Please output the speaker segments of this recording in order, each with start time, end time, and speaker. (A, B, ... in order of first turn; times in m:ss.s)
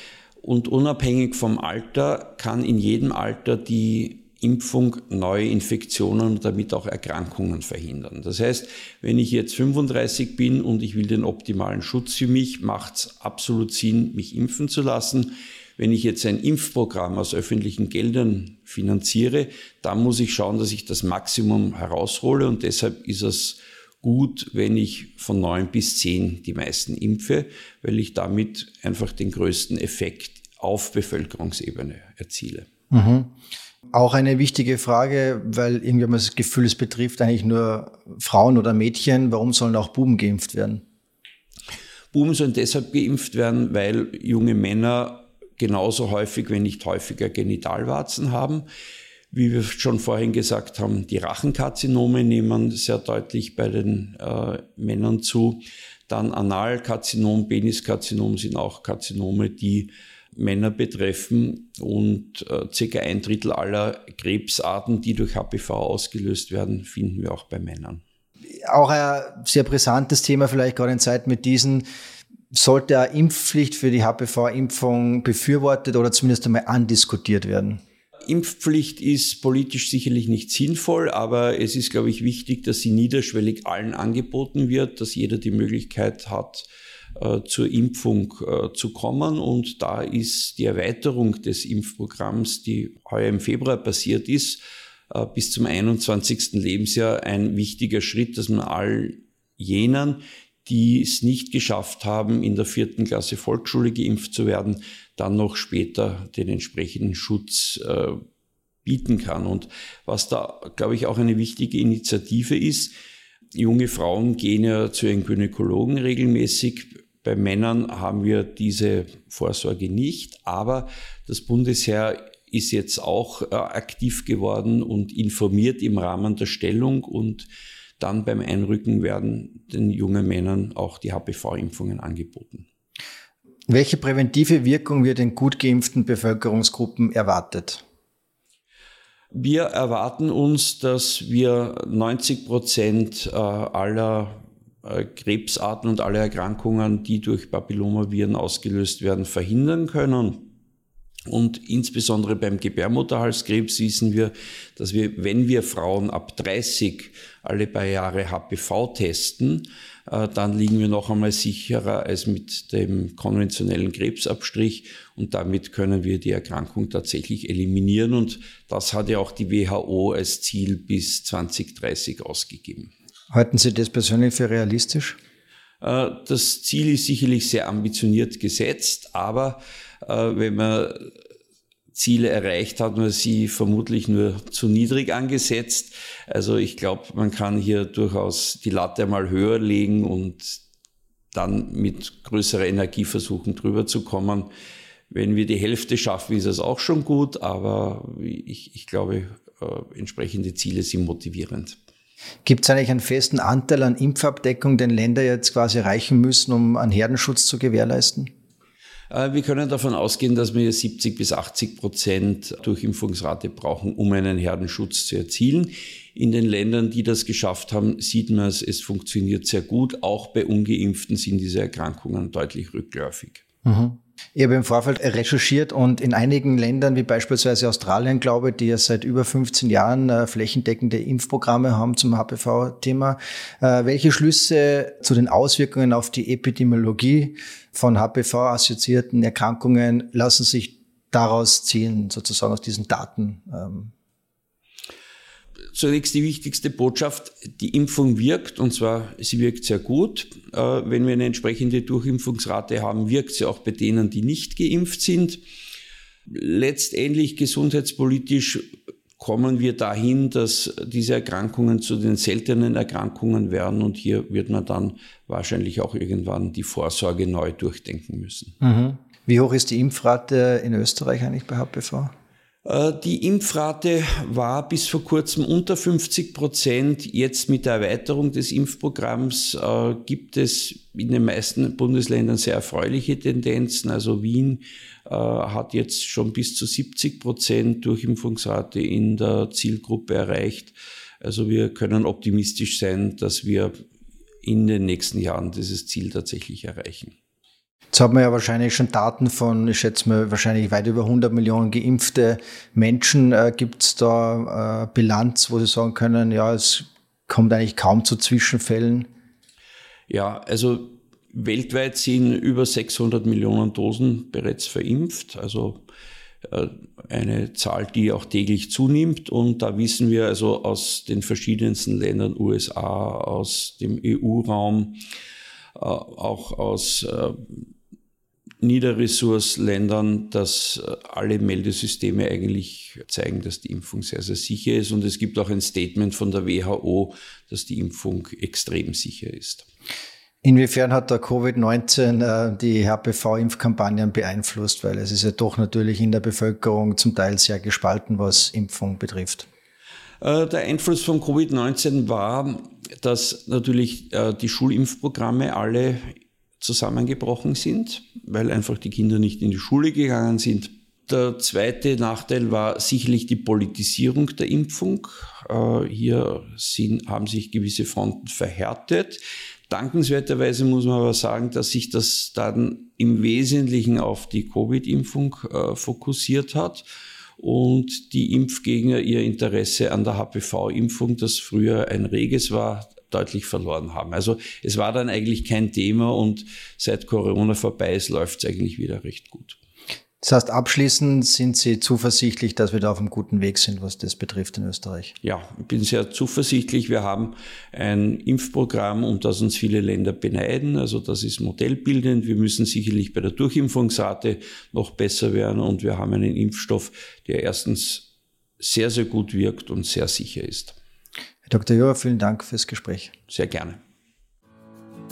0:00.4-0:32.7 A
0:32.9-0:33.3 B
0:33.9-0:40.8 B
0:42.1-0:48.7 A
0:49.3-1:08.0 A
1:08.7-1:11.8 B
1:12.5-1:17.8 B
1:18.3-1:26.7 A
1:27.2-1:48.2 A
1:48.8-1:53.0 A
1:53.6-2:07.5 A
2:08.0-2:12.7 A
2:13.7-2:17.8 B
2:19.3-2:30.5 A
2:31.3-2:52.9 A
2:53.3-2:55.2 B
2:55.8-3:01.1 A
3:01.9-3:10.6 A
3:11.3-3:14.5 A
3:15.1-3:21.8 A
3:22.4-3:28.3 B
3:29.1-3:43.4 A
3:43.6-4:03.9 B
4:05.7-4:15.4 A
4:16.3-4:28.5 A
4:28.6-4:32.1 B
4:32.6-4:53.7 A
4:54.4-4:57.2 A
4:57.9-5:09.1 B
5:10.1-5:15.8 A
5:16.4-5:25.0 A
5:25.8-5:27.6 A
5:28.6-5:39.7 A
5:40.4-5:49.5 B
5:50.2-6:16.8 A
6:17.4-6:29.6 A
6:30.2-6:35.1 B
6:35.2-6:48.1 A
6:48.6-6:50.8 A
6:51.5-6:53.1 B
6:53.3-6:53.8 A